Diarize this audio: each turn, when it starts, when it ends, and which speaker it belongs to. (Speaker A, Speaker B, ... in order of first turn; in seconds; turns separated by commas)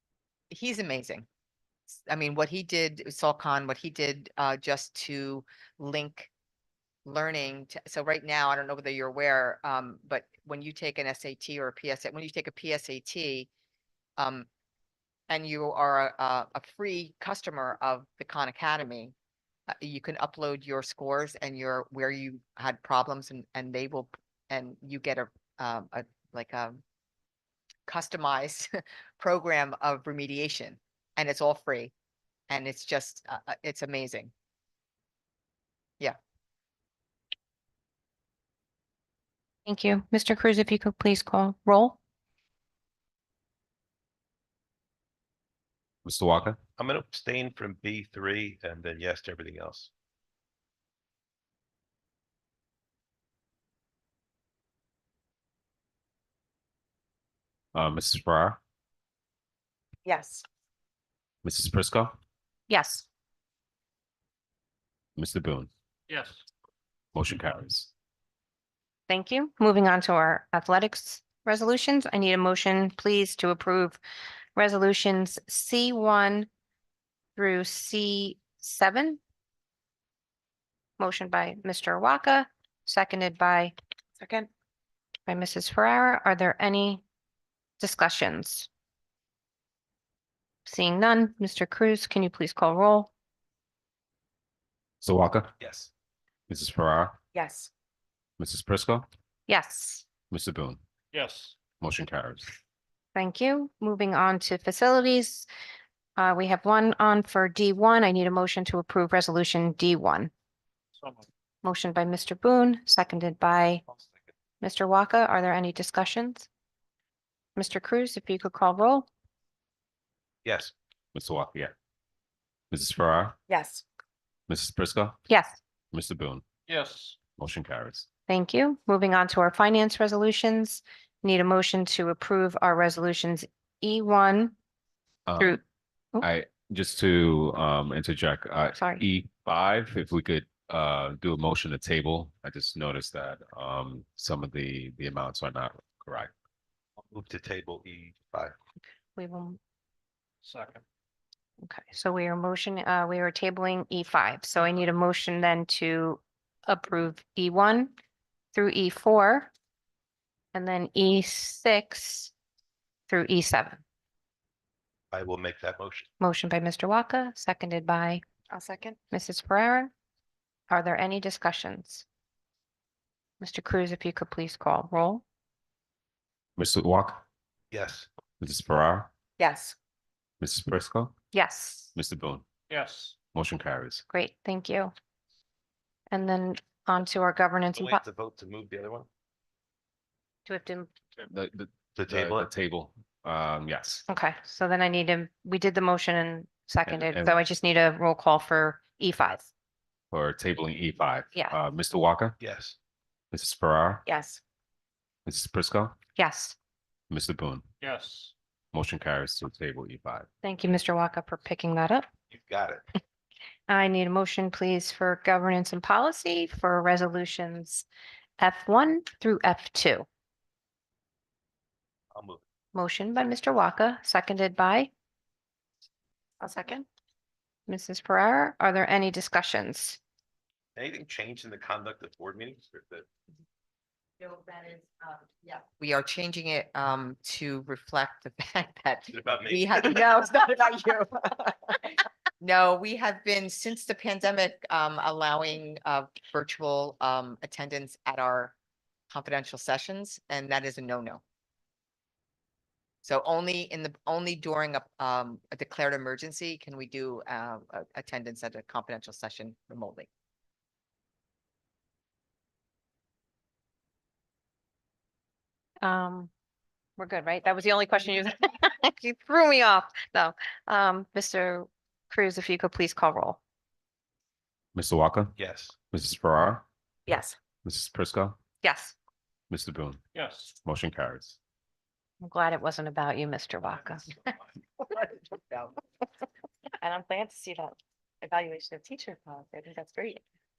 Speaker A: 0.5-1.3, Speaker A: 1.9-6.3, Speaker A: 7.0-13.5, Speaker A: 14.2-14.5, Speaker A: 15.3-19.1, Speaker A: 19.8-26.8, Speaker A: 27.9-31.9, Speaker A: 32.5-34.3, Speaker B: 39.7-42.0, Speaker C: 46.0-46.6, Speaker D: 46.8-49.9, Speaker C: 57.7-58.6, Speaker C: 61.4-62.1, Speaker B: 62.7-63.1, Speaker C: 65.2-65.7, Speaker E: 66.1-66.4, Speaker C: 67.2-67.9, Speaker B: 69.1-74.0, Speaker B: 74.6-76.5, Speaker B: 77.4-79.2, Speaker B: 81.0-83.7, Speaker B: 85.3-87.0, Speaker B: 87.8-88.7, Speaker B: 90.7-93.1, Speaker C: 95.0-95.5, Speaker D: 95.6-95.9, Speaker C: 96.5-97.2, Speaker C: 98.4-99.1, Speaker B: 99.5-100.1, Speaker C: 100.3-100.8, Speaker E: 101.1-101.6, Speaker C: 101.8-102.6, Speaker B: 103.1-105.5, Speaker B: 106.2-110.3, Speaker E: 111.0-111.3, Speaker B: 111.6-113.8, Speaker B: 114.6-116.5, Speaker B: 117.6-119.1, Speaker D: 120.4-120.7, Speaker C: 121.1-121.7, Speaker C: 122.7-123.4, Speaker C: 124.5-125.2, Speaker B: 125.3-125.6, Speaker C: 125.9-126.4, Speaker E: 126.7-127.2, Speaker C: 127.4-128.1, Speaker B: 128.3-134.6, Speaker C: 135.3-135.6, Speaker C: 136.2-146.3, Speaker B: 138.8-139.0, Speaker D: 147.1-148.6, Speaker B: 149.2-149.6, Speaker E: 150.4-150.8, Speaker B: 151.6-157.9, Speaker B: 158.5-159.5, Speaker B: 160.5-162.3, Speaker B: 163.1-163.8, Speaker D: 165.1-166.1, Speaker B: 166.2-168.2, Speaker B: 169.1-169.9, Speaker B: 170.7-172.1, Speaker B: 173.4-175.2, Speaker C: 176.6-177.2, Speaker D: 177.7-178.1, Speaker C: 178.4-179.1, Speaker A: 179.4-179.8, Speaker C: 180.4-181.1, Speaker B: 181.3-181.9, Speaker C: 181.9-182.4, Speaker E: 182.7-183.2, Speaker C: 183.3-184.0, Speaker B: 184.1-184.9, Speaker B: 186.1-188.0, Speaker D: 187.7-189.1, Speaker B: 190.5-190.9, Speaker C: 191.3-194.1, Speaker D: 192.0-192.5, Speaker B: 194.1-199.5, Speaker C: 196.9-197.3, Speaker C: 200.1-202.4, Speaker D: 202.4-202.8, Speaker C: 203.3-204.0, Speaker C: 205.3-206.0, Speaker B: 206.2-206.6, Speaker C: 207.1-207.7, Speaker E: 207.8-208.3, Speaker C: 208.7-210.3, Speaker B: 210.4-212.1, Speaker D: 212.3-212.8, Speaker B: 213.7-217.9, Speaker B: 218.4-220.1, Speaker D: 222.1-222.4, Speaker B: 222.7-224.9, Speaker B: 227.7-230.0, Speaker D: 230.8-233.1, Speaker A: 234.4-234.9, Speaker A: 235.5-248.6, Speaker D: 239.1-240.1, Speaker A: 249.1-251.2, Speaker A: 253.0-260.1, Speaker B: 265.8-266.3, Speaker B: 267.0-273.4, Speaker C: 274.8-275.4, Speaker D: 275.4-275.8, Speaker C: 275.9-276.6, Speaker C: 277.6-278.4, Speaker B: 278.6-278.9, Speaker C: 279.5-280.0, Speaker E: 280.1-280.6, Speaker C: 280.6-281.4, Speaker B: 282.2-284.1, Speaker A: 284.8-285.7